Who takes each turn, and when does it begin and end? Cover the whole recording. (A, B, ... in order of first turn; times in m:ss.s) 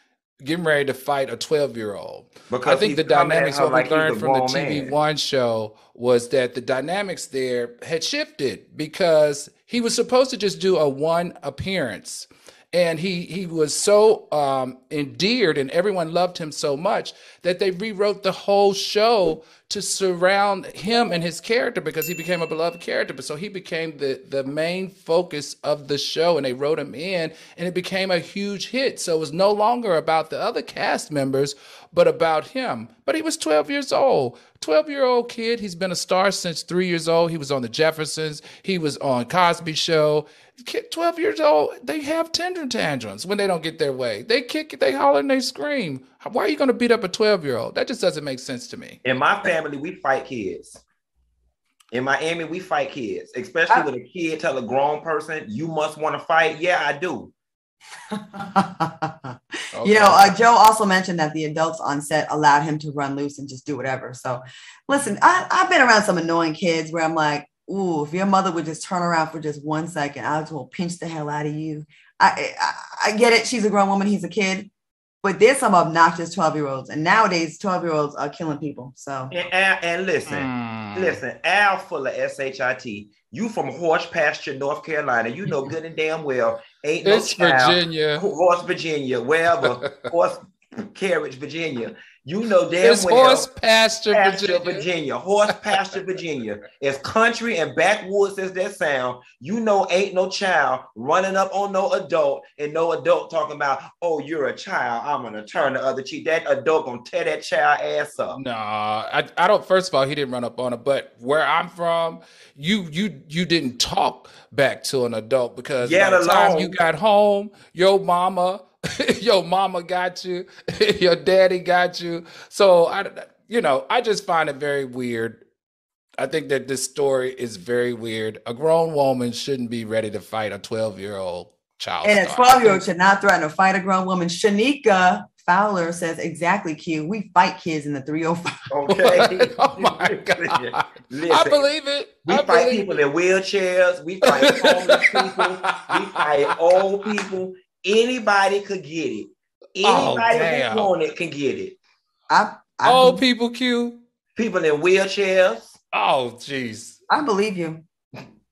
0:00.4-0:49.0 A
0:02.5-0:04.9 B
0:49.0-0:50.8 B
0:51.9-0:57.3 B
0:58.1-1:14.7 C
0:59.8-1:00.4 A
1:15.2-1:19.3 C
1:19.3-1:30.4 B
1:20.3-1:21.2 A
1:27.0-1:28.2 A
1:29.7-1:29.9 A
1:30.9-1:33.4 B
1:32.8-1:34.8 A
1:34.1-1:48.4 B
1:35.5-1:35.7 A
1:48.3-2:05.4 A
1:55.8-1:56.8 B
2:06.2-2:12.8 A
2:12.0-2:19.0 C
2:18.7-2:21.6 B
2:18.9-2:23.0 A
2:22.2-2:31.8 B
2:24.3-2:26.2 A
2:29.8-2:30.9 A
2:32.3-2:33.2 C
2:32.8-2:34.0 A
2:34.4-2:35.8 B
2:35.9-2:37.0 A
2:37.1-2:37.8 C